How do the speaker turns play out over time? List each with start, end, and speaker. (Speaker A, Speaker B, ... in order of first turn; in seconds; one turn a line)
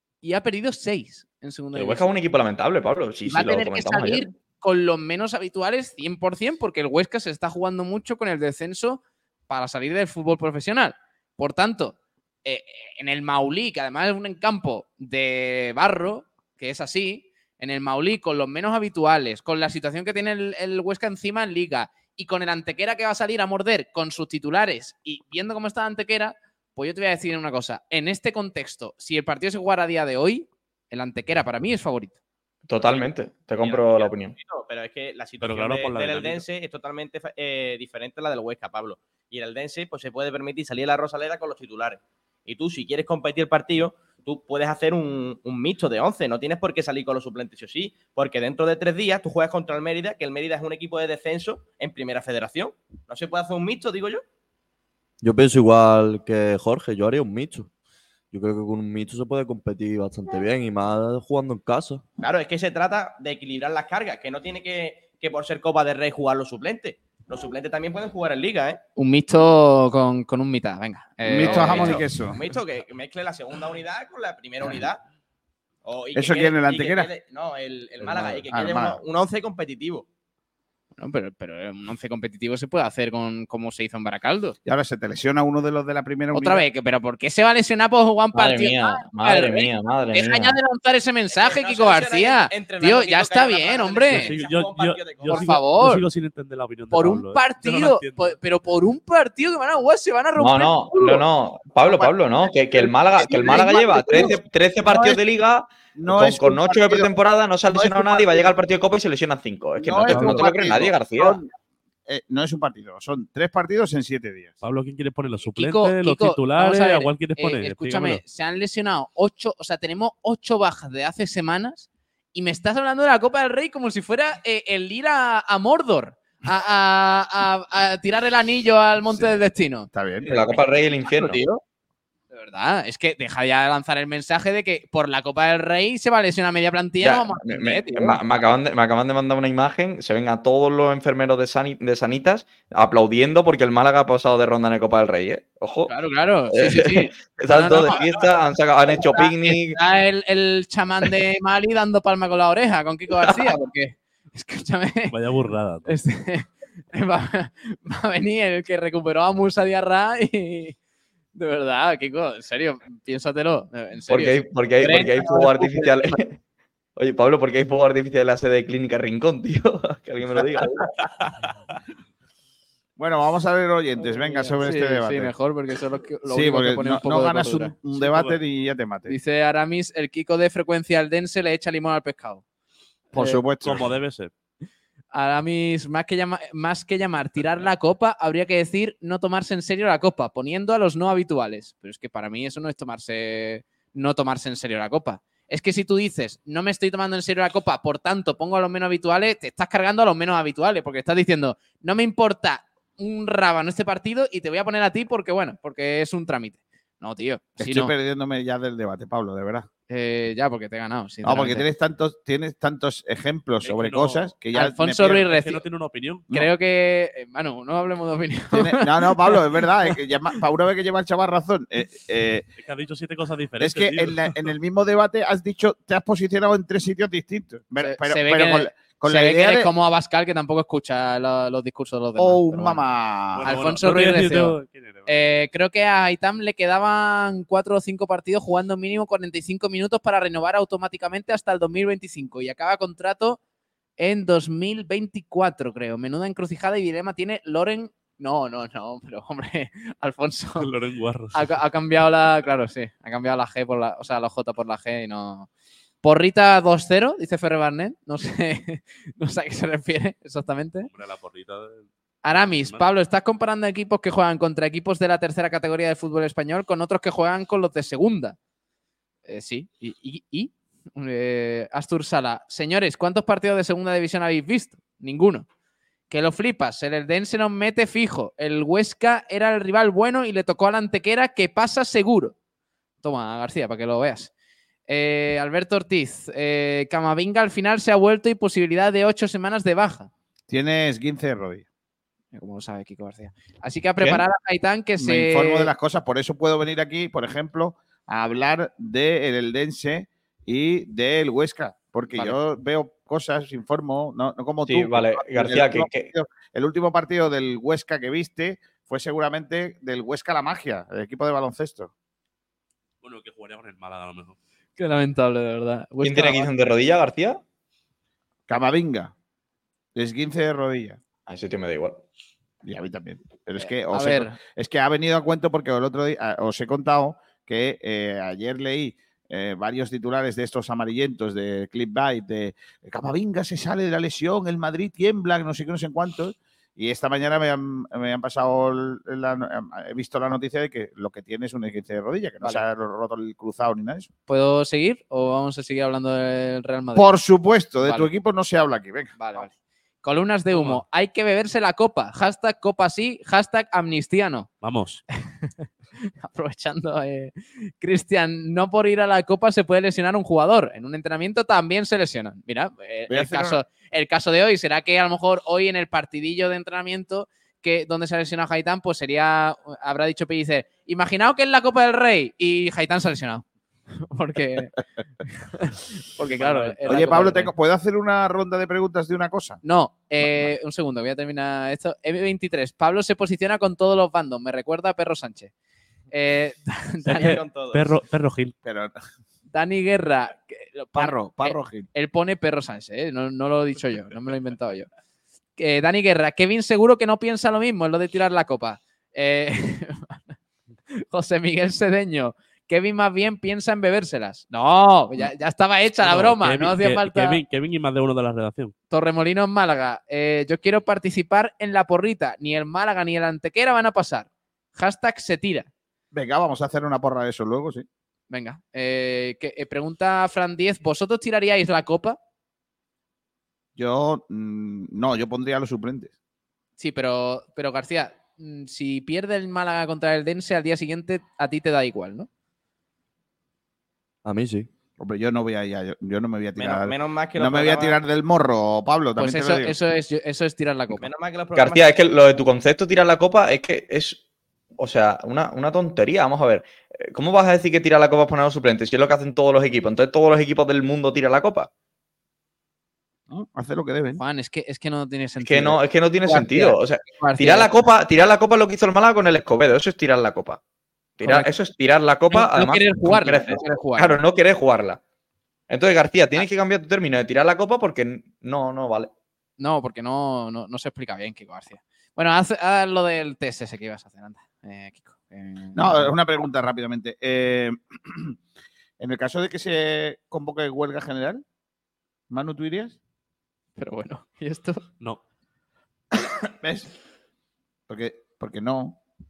Speaker A: 0.2-2.1
Speaker B: 1.7-4.3
Speaker A: 3.3-32.2
Speaker B: 32.7-34.4
Speaker C: 32.8-54.2
Speaker D: 35.4-36.5
Speaker E: 55.2-57.7
Speaker E: 58.3-62.0
Speaker C: 62.2-68.8
Speaker A: 69.0-72.0
Speaker F: 71.2-72.4
Speaker C: 71.4-75.0
Speaker C: 75.8-80.1
Speaker F: 76.2-77.1
Speaker F: 78.1-79.0
Speaker A: 81.0-84.6
Speaker F: 84.7-86.7
Speaker A: 86.3-94.3
Speaker B: 88.3-90.6
Speaker C: 91.3-95.6
Speaker D: 94.1-98.4
Speaker A: 95.3-96.0
Speaker A: 96.9-101.2
Speaker B: 100.4-111.4
Speaker F: 101.8-102.1
Speaker F: 102.7-105.2
Speaker F: 106.0-107.1
Speaker F: 107.7-108.6
Speaker F: 109.8-111.5
Speaker A: 110.1-110.4
Speaker F: 112.1-114.6
Speaker D: 114.6-118.2
Speaker A: 115.5-129.9
Speaker F: 129.9-131.6
Speaker B: 130.2-131.4
Speaker A: 132.3-138.2
Speaker B: 137.0-145.9
Speaker A: 145.9-148.0
Speaker B: 146.5-149.8
Speaker A: 149.2-155.1
Speaker B: 153.2-153.5
Speaker D: 155.1-155.9
Speaker A: 155.9-160.8
Speaker A: 161.3-165.3
Speaker B: 164.1-166.4
Speaker F: 164.8-166.1
Speaker B: 167.0-170.9
Speaker F: 173.0-175.3
Speaker A: 174.0-177.7
Speaker F: 176.3-179.2
Speaker D: 177.9-178.4
Speaker A: 179.1-182.4
Speaker F: 183.1-183.9
Speaker A: 183.2-183.4
Speaker D: 183.6-184.3
Speaker A: 185.1-207.9
Speaker F: 207.6-209.7
Speaker A: 209.9-211.6
Speaker F: 211.2-215.4
Speaker D: 213.6-214.3
Speaker A: 214.5-215.6
Speaker D: 215.1-216.3
Speaker A: 216.3-219.4
Speaker F: 218.5-222.5
Speaker D: 222.6-224.6
Speaker F: 223.6-229.7
Speaker A: 227.8-232.8
Speaker F: 232.2-233.5
Speaker D: 233.3-235.5
Speaker A: 233.4-234.6
Speaker A: 235.1-243.4
Speaker A: 244.0-250.7
Speaker D: 250.6-251.6
Speaker A: 251.3-255.5
Speaker A: 256.0-260.9
Speaker D: 260.9-262.9
Speaker A: 262.2-268.4
Speaker A: 269.3-275.5
Speaker A: 276.1-282.4
Speaker A: 283.0-284.3
Speaker A: 284.9-290.1
Speaker F: 290.5-291.6
Speaker A: 292.3-295.7
Speaker F: 295.0-311.9
Speaker B: 304.7-306.1
Speaker D: 313.0-314.4
Speaker A: 314.8-316.5
Speaker B: 316.0-317.4
Speaker F: 318.5-319.1
Speaker F: 319.9-321.0
Speaker B: 321.3-322.0
Speaker F: 322.6-344.1
Speaker A: 323.6-324.3
Speaker A: 344.3-347.1
Speaker F: 346.9-349.5
Speaker A: 347.8-348.1
Speaker A: 349.2-354.5
Speaker D: 350.5-350.8
Speaker D: 354.6-355.0
Speaker A: 356.2-373.4
Speaker F: 363.1-363.6
Speaker A: 374.0-374.7
Speaker A: 375.3-377.5
Speaker F: 376.9-379.6
Speaker A: 379.6-385.5
Speaker F: 380.2-380.5
Speaker A: 386.1-387.4
Speaker D: 387.1-388.6
Speaker C: 387.1-387.9
Speaker F: 388.6-389.0
Speaker A: 389.5-394.9
Speaker F: 390.9-391.9
Speaker A: 395.6-400.2
Speaker A: 401.1-407.4
Speaker D: 406.0-408.7
Speaker A: 408.9-415.7
Speaker F: 416.1-417.9
Speaker A: 418.3-422.2
Speaker F: 423.8-426.1
Speaker A: 426.8-432.3
Speaker E: 434.2-434.7
Speaker F: 435.0-439.8
Speaker C: 436.6-438.0
Speaker A: 439.2-441.1
Speaker C: 441.0-442.0
Speaker B: 441.6-444.2
Speaker B: 444.8-451.7
Speaker F: 453.3-454.2
Speaker A: 454.2-457.7
Speaker B: 455.4-460.6
Speaker B: 461.2-465.0
Speaker A: 461.2-461.5
Speaker A: 462.3-464.2
Speaker B: 465.7-469.1
Speaker A: 469.6-476.1
Speaker F: 475.8-478.4
Speaker F: 479.0-481.4
Speaker F: 482.3-483.0
Speaker A: 483.8-484.8
Speaker F: 486.1-486.9
Speaker F: 487.9-489.0